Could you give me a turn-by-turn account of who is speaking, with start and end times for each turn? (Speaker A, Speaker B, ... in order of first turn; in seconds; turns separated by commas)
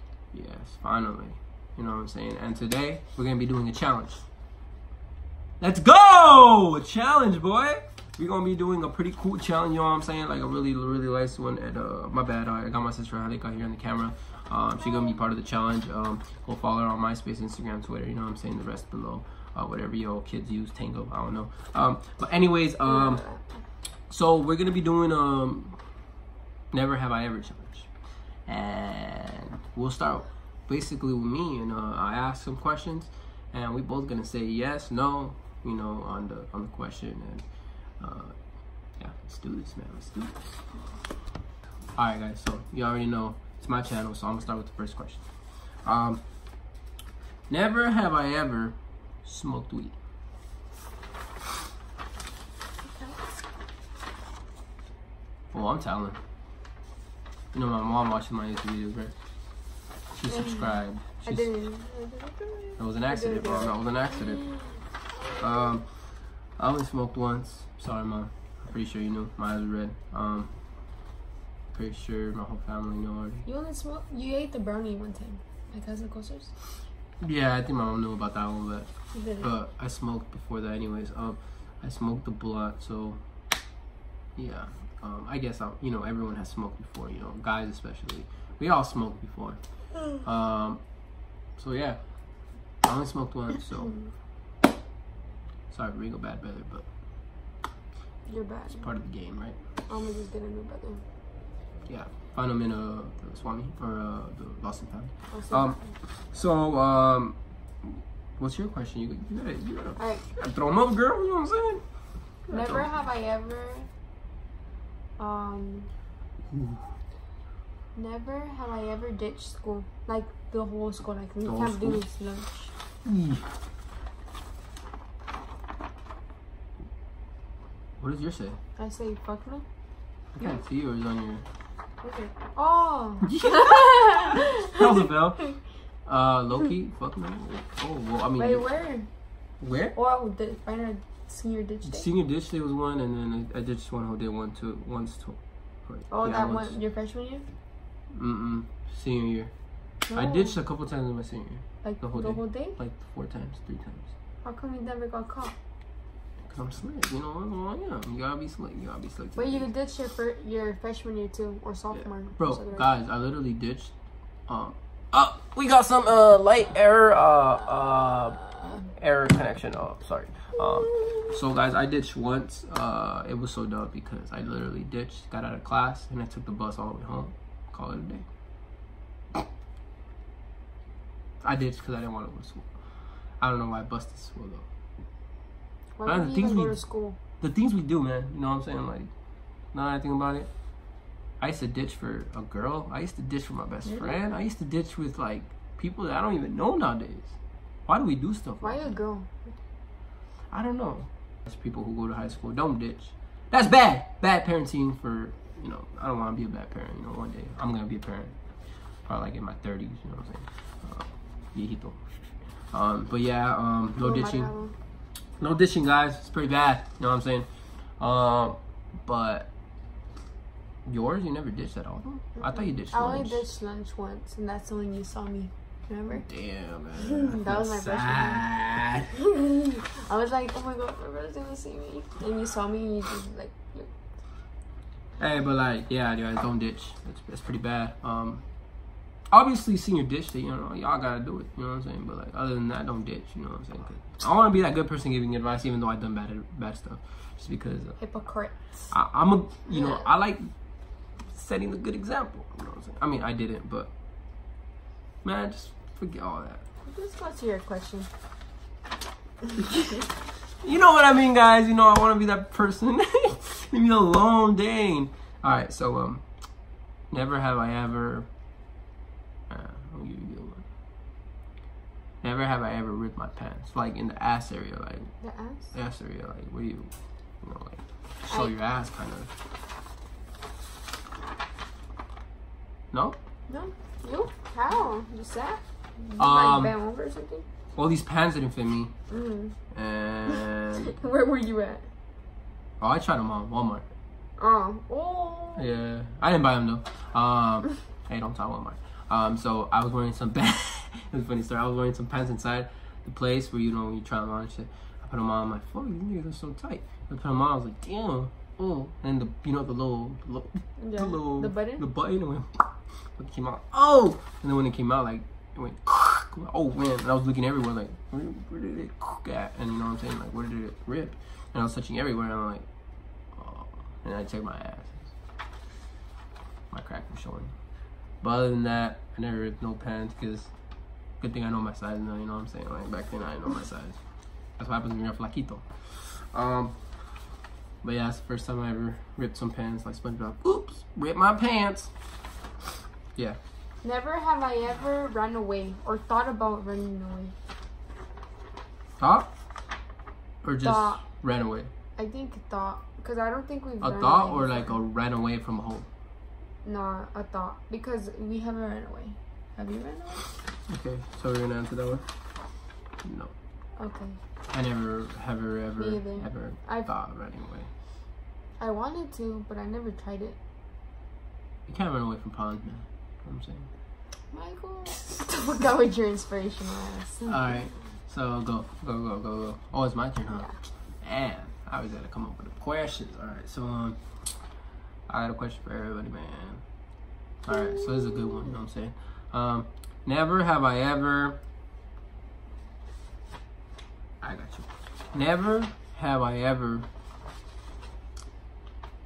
Speaker A: 0.3-4.2, Speaker A: 5.6-23.2, Speaker B: 22.9-23.5, Speaker A: 24.1-25.8, Speaker A: 26.7-27.9, Speaker A: 28.5-37.5, Speaker A: 38.0-38.4, Speaker A: 39.0-40.4, Speaker A: 42.0-45.2, Speaker A: 45.9-46.2, Speaker A: 47.5-50.0, Speaker B: 52.8-53.2, Speaker A: 55.5-56.2, Speaker A: 57.5-59.1, Speaker A: 60.2-61.5, Speaker B: 60.3-60.7, Speaker B: 61.2-64.8, Speaker A: 62.8-64.5, Speaker A: 65.4-65.9, Speaker A: 66.6-70.5, Speaker A: 71.7-73.5, Speaker B: 73.5-76.5, Speaker A: 77.2-78.9, Speaker B: 79.1-79.5, Speaker A: 79.4-83.2, Speaker A: 84.4-89.6, Speaker A: 90.2-90.8, Speaker A: 91.6-92.0, Speaker A: 92.8-94.0, Speaker A: 95.7-96.8, Speaker B: 98.3-98.9, Speaker A: 98.7-99.6, Speaker B: 99.9-101.0, Speaker A: 101.9-111.8, Speaker B: 105.3-105.9, Speaker B: 110.0-110.2, Speaker A: 112.5-112.9, Speaker B: 112.5-113.9, Speaker B: 115.2-115.9, Speaker A: 116.5-116.9, Speaker B: 118.0-122.7, Speaker A: 121.5-122.0, Speaker A: 123.0-123.5, Speaker A: 128.0-128.6, Speaker B: 128.8-129.6, Speaker A: 130.3-131.4, Speaker B: 132.0-135.5, Speaker A: 133.2-135.5, Speaker A: 136.1-138.7, Speaker B: 138.4-139.1, Speaker A: 139.6-140.0, Speaker B: 139.9-142.1, Speaker A: 141.9-146.8, Speaker B: 146.1-147.5, Speaker A: 148.1-149.5, Speaker B: 150.1-150.6, Speaker A: 150.1-154.1, Speaker B: 151.8-152.8, Speaker B: 154.4-155.5, Speaker A: 156.5-159.7, Speaker B: 159.4-162.9, Speaker A: 162.4-163.9, Speaker A: 164.5-178.2, Speaker A: 181.4-182.7, Speaker A: 183.4-184.7, Speaker B: 186.0-187.2, Speaker A: 186.1-186.8, Speaker A: 187.4-189.1, Speaker A: 189.7-190.5, Speaker A: 191.4-197.4, Speaker B: 193.9-194.2, Speaker A: 197.9-199.0, Speaker B: 198.6-199.5, Speaker A: 200.5-208.3, Speaker A: 209.1-212.0, Speaker A: 212.7-214.5, Speaker B: 214.0-214.7, Speaker A: 215.4-217.5, Speaker A: 218.0-219.5, Speaker A: 220.9-223.4, Speaker B: 222.4-226.3, Speaker A: 226.2-229.1, Speaker B: 227.0-228.5, Speaker B: 229.2-233.9, Speaker A: 235.2-238.4, Speaker A: 239.3-248.0, Speaker B: 248.0-248.6, Speaker A: 248.9-250.5, Speaker B: 249.7-250.1, Speaker A: 251.3-253.9, Speaker A: 255.2-256.6, Speaker B: 256.9-258.1, Speaker B: 259.5-260.0, Speaker A: 260.6-266.2, Speaker A: 267.1-268.3, Speaker A: 269.5-270.6, Speaker A: 272.2-275.1, Speaker B: 275.2-275.7, Speaker A: 275.7-276.9, Speaker A: 277.4-279.3, Speaker A: 282.9-283.2, Speaker B: 283.5-287.5, Speaker A: 286.2-286.8, Speaker A: 287.8-288.9, Speaker B: 289.1-289.6, Speaker A: 289.7-291.0, Speaker B: 290.3-291.9, Speaker A: 292.8-293.8, Speaker B: 294.4-295.8, Speaker A: 295.6-322.6, Speaker B: 310.8-311.9, Speaker A: 323.4-325.1, Speaker A: 326.7-327.5, Speaker A: 328.2-330.5, Speaker A: 331.2-334.0, Speaker A: 334.6-336.8, Speaker A: 337.8-341.9, Speaker B: 343.8-347.3, Speaker A: 349.0-349.3, Speaker A: 350.4-351.7, Speaker B: 350.6-351.0, Speaker B: 352.0-354.7, Speaker A: 353.8-355.9, Speaker B: 356.6-360.3, Speaker A: 360.7-362.1, Speaker A: 363.0-363.3, Speaker B: 363.8-364.2, Speaker A: 364.5-367.7, Speaker B: 365.8-366.9, Speaker B: 368.6-370.4, Speaker A: 371.7-373.7, Speaker B: 374.3-377.7, Speaker A: 377.3-380.5, Speaker A: 381.0-384.0, Speaker A: 385.1-386.6, Speaker A: 387.4-391.4, Speaker A: 394.2-396.9